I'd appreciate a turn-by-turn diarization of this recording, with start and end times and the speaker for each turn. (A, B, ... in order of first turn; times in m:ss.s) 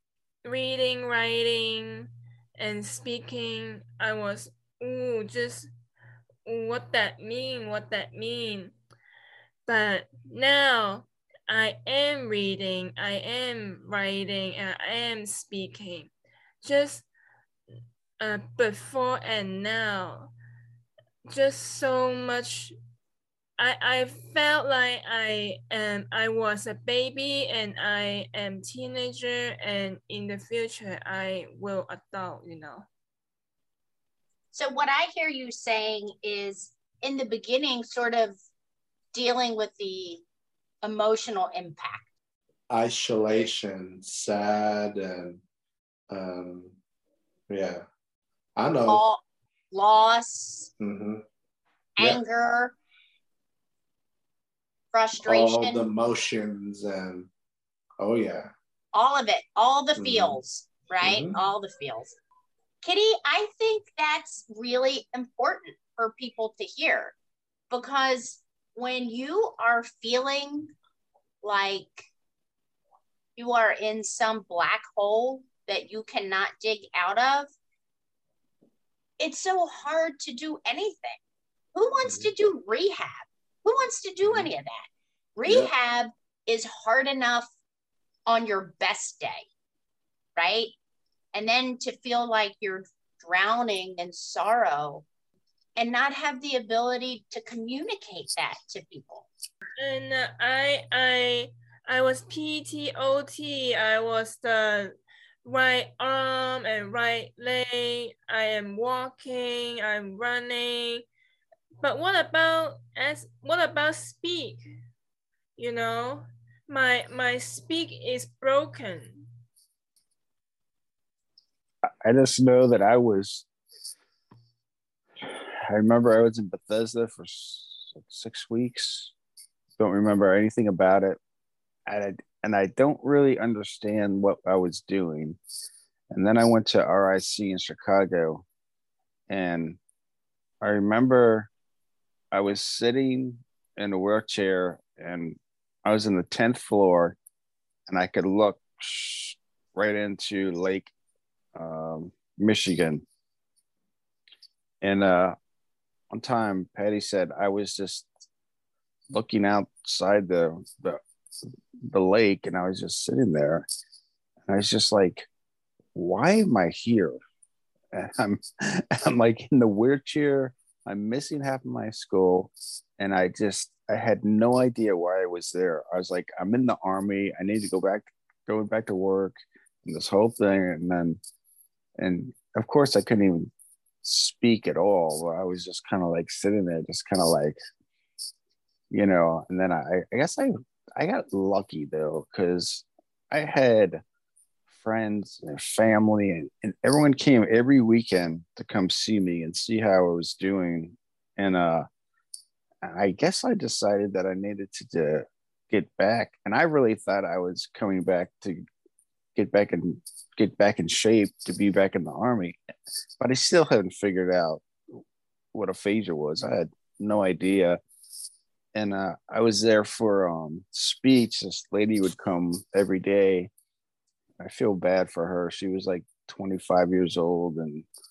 0:00.4-0:05.7 A
0:06.5-0:08.8 A
0:09.7-0:16.1 A
0:16.6-0:17.1 A
0:18.2-0:20.3 A
0:21.3-0:22.8 A
0:23.6-0:32.8 A
0:34.5-0:38.4 B
0:39.1-0:40.2 B
0:40.8-0:42.0 B
0:42.7-0:45.4 C
0:46.1-0:46.8 C
0:47.5-0:47.8 C
0:48.6-0:49.0 C
0:48.9-0:49.2 B
0:49.7-0:50.7 B
0:50.8-0:51.2 C
0:52.0-0:52.7 B
0:52.0-0:52.2 C
0:54.9-0:55.9 B
0:55.2-0:57.3 C
0:58.0-0:58.5 C
0:58.9-1:02.2 B
1:00.0-1:00.4 C
1:01.0-1:01.4 C
1:02.8-1:07.1 B
1:07.7-1:10.7 B
1:11.4-1:12.1 B
1:13.4-1:17.5 B
1:19.2-1:21.2 B
1:21.8-1:27.5 B
1:22.0-1:22.3 C
1:24.2-1:24.5 C
1:25.5-1:25.7 C
1:28.3-1:29.5 B
1:30.4-1:30.7 B
1:31.3-1:35.0 B
1:35.8-1:39.3 B
1:39.8-1:44.9 A
1:45.4-1:51.1 A
1:51.8-1:54.6 A
1:55.6-1:59.2 A
2:02.0-2:03.5 D
2:05.2-2:09.1 D
2:09.8-2:11.2 D
2:11.9-2:15.4 D
2:16.1-2:18.4 D
2:19.3-2:19.8 D
2:20.6-2:21.5 D
2:22.3-2:27.2 D
2:27.9-2:30.9 D
2:31.6-2:33.0 D
2:34.8-2:35.4 D
2:36.1-2:38.1 D
2:39.1-2:41.0 D
2:41.9-2:43.7 D
2:44.5-2:45.3 D
2:46.0-2:47.2 D
2:47.9-3:01.2 D
3:02.0-3:03.5 D
3:04.0-3:07.6 D
3:08.9-3:14.0 D
3:14.7-3:21.9 D
3:22.8-3:28.6 D
3:29.4-3:32.6 D
3:33.2-3:34.6 D
3:35.5-3:37.8 D
3:38.8-3:43.5 D
3:44.4-3:47.9 D